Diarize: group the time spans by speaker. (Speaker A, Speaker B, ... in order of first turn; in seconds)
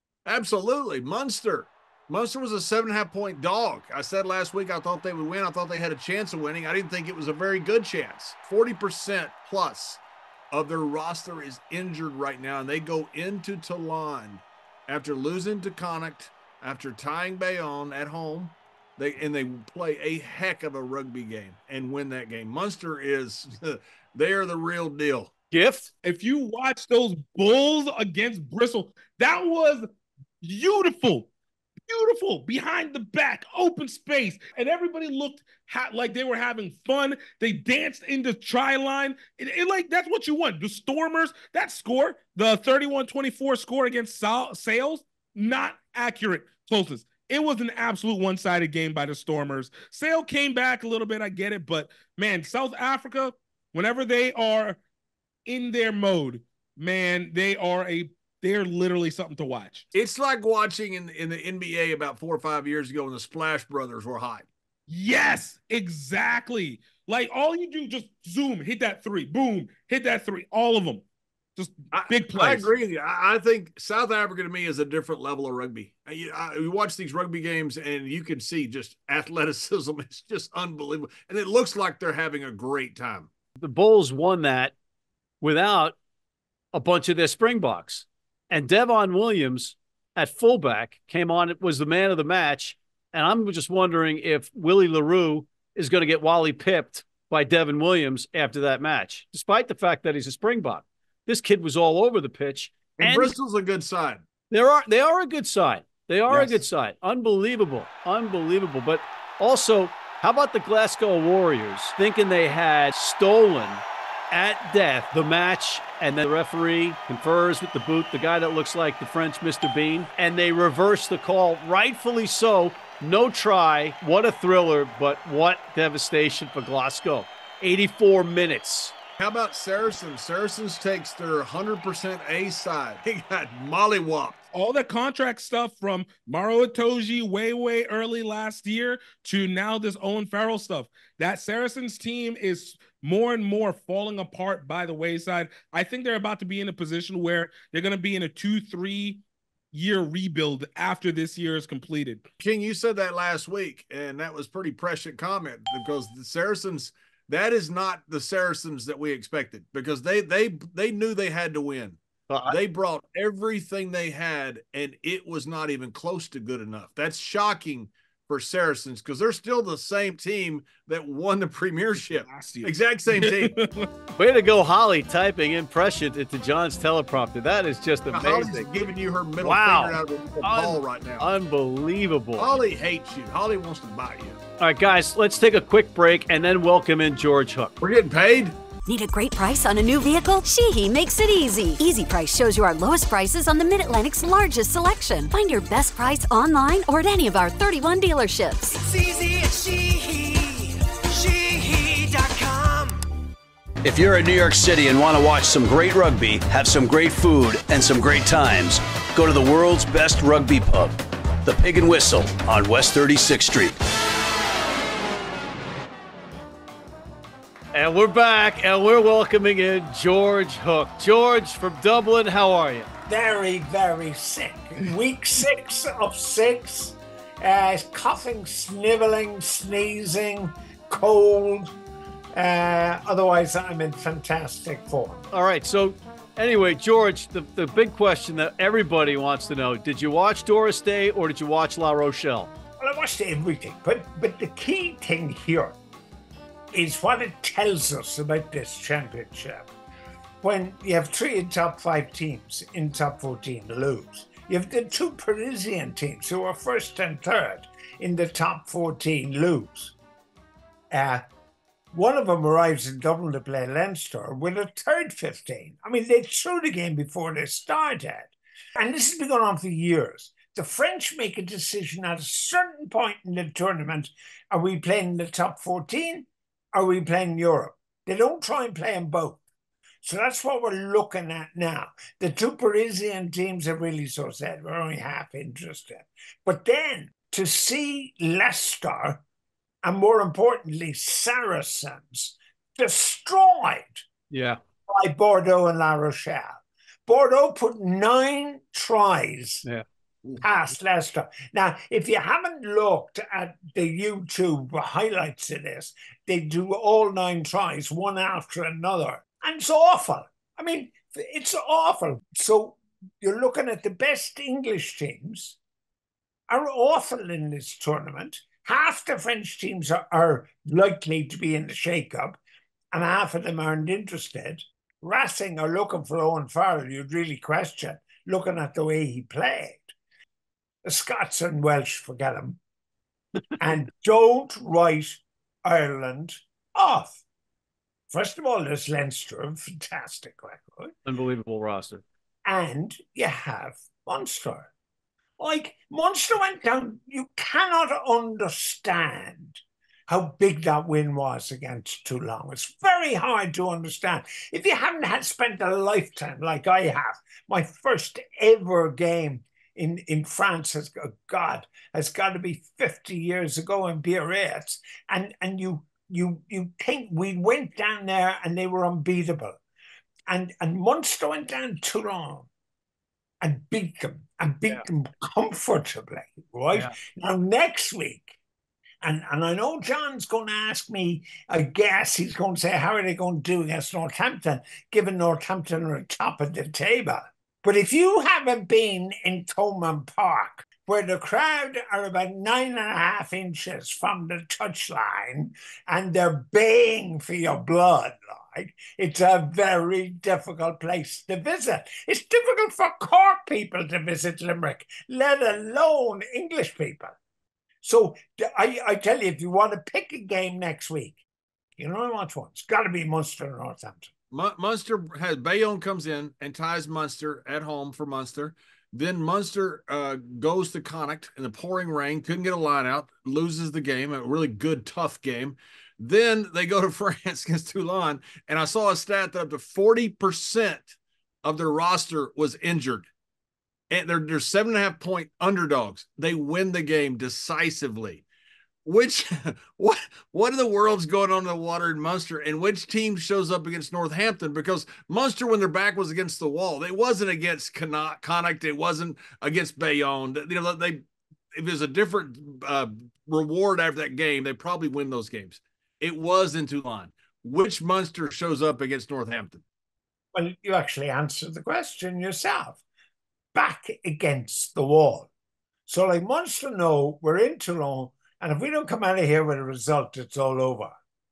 Speaker A: 0.2-10.0, 10.5-25.3, 59.9-64.5, 71.9-83.3, 103.0-104.2, 106.3-106.5, 129.2-134.4, 152.4-173.5, 178.1-181.3, 182.4-184.4, 187.8-188.6, 414.3-430.9, 431.4-433.1, 433.9-438.2, 438.8-451.0, 451.5-459.6
Speaker B: 25.5-25.9, 83.6-84.7, 85.4-86.0, 86.7-103.3, 104.5-128.9, 162.3-162.6, 174.2-178.7, 179.4-182.5, 184.6-187.7, 217.7-222.9, 235.3-242.5, 294.3-294.6, 341.1-342.0
Speaker C: 26.0-29.9, 30.4-31.3, 31.9-54.8, 55.5-59.9, 64.9-71.0, 71.6-72.7, 134.5-149.2, 149.7-152.2, 172.2-173.9
Speaker D: 188.8-198.8
Speaker E: 198.7-203.0, 203.8-213.8
Speaker F: 223.1-231.8, 232.3-235.2, 242.8-245.8, 246.7-249.7, 250.4-259.9, 260.9-261.2, 261.9-279.4, 280.0-289.2, 289.8-294.0, 294.9-299.6, 300.4-315.6, 316.5-322.4, 322.9-329.9, 330.8-332.6, 333.6-337.2, 338.1-340.9, 342.4-344.7, 345.4-369.6, 370.3-372.5, 373.4-378.4, 379.0-407.1, 407.8-411.2, 411.8-414.1, 460.3-462.8, 463.5-465.3, 465.9-470.9